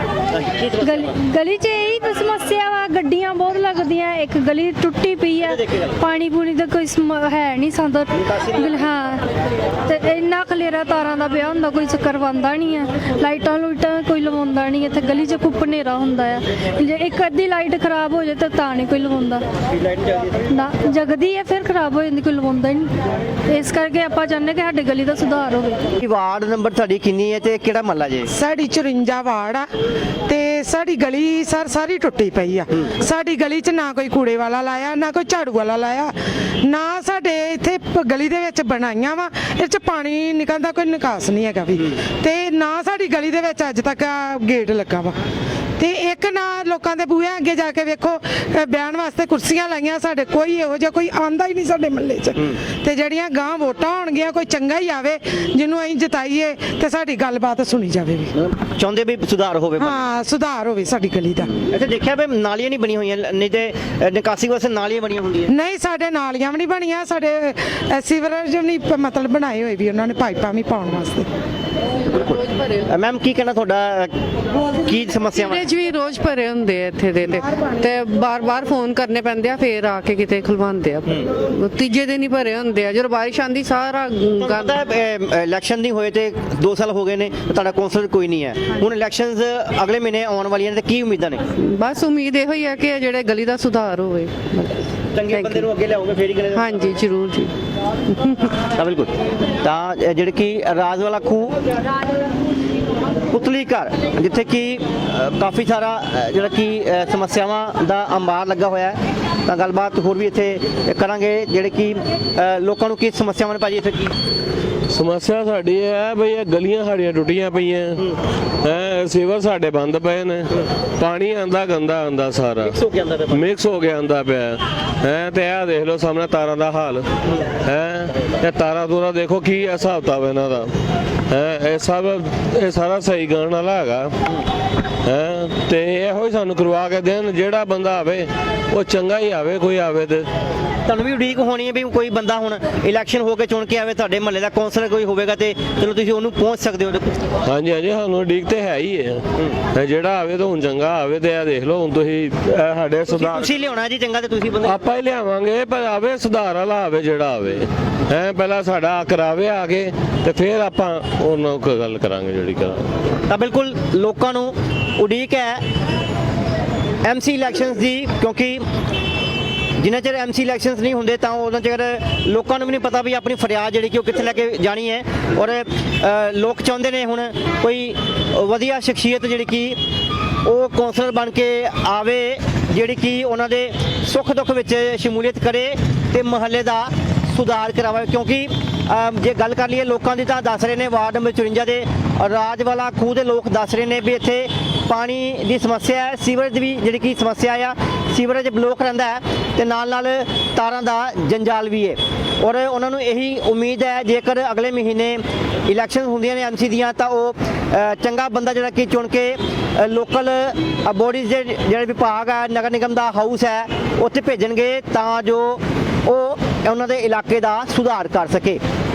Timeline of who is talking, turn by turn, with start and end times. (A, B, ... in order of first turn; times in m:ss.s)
0:00.3-0:01.2 A
0:00.8-0:09.2 B
0:05.4-0:06.0 A
0:08.2-0:08.8 A
0:09.9-0:19.4 B
0:19.7-0:20.3 A
0:20.5-0:22.9 B
0:23.5-0:25.8 B
0:26.0-0:28.3 A
0:28.3-0:29.7 C
0:30.3-0:45.1 C
0:45.8-0:58.3 C
0:58.4-1:00.1 A
0:59.8-1:01.5 C
1:01.7-1:05.5 A
1:05.5-1:11.3 C
1:12.1-1:14.1 A
1:14.8-1:15.7 A
1:15.4-1:24.8 D
1:24.4-1:31.4 A
1:31.6-1:34.7 D
1:35.1-1:36.8 A
1:35.3-1:35.7 D
1:36.5-1:37.5 D
1:38.2-1:38.5 D
1:38.8-1:39.1 A
1:39.6-1:41.6 A
1:43.3-1:54.1 A
1:54.9-1:58.0 E
1:58.6-2:02.7 E
2:02.6-2:03.4 A
2:03.3-2:07.0 E
2:07.6-2:10.7 E
2:11.3-2:14.1 E
2:15.0-2:20.3 E
2:20.9-2:27.1 A
2:27.4-2:29.2 E
2:29.7-2:33.5 E
2:33.1-2:34.8 A
2:34.6-2:42.8 E
2:43.3-2:45.6 A
2:47.0-2:48.6 A
2:49.8-2:59.8 A
3:00.4-3:38.6 A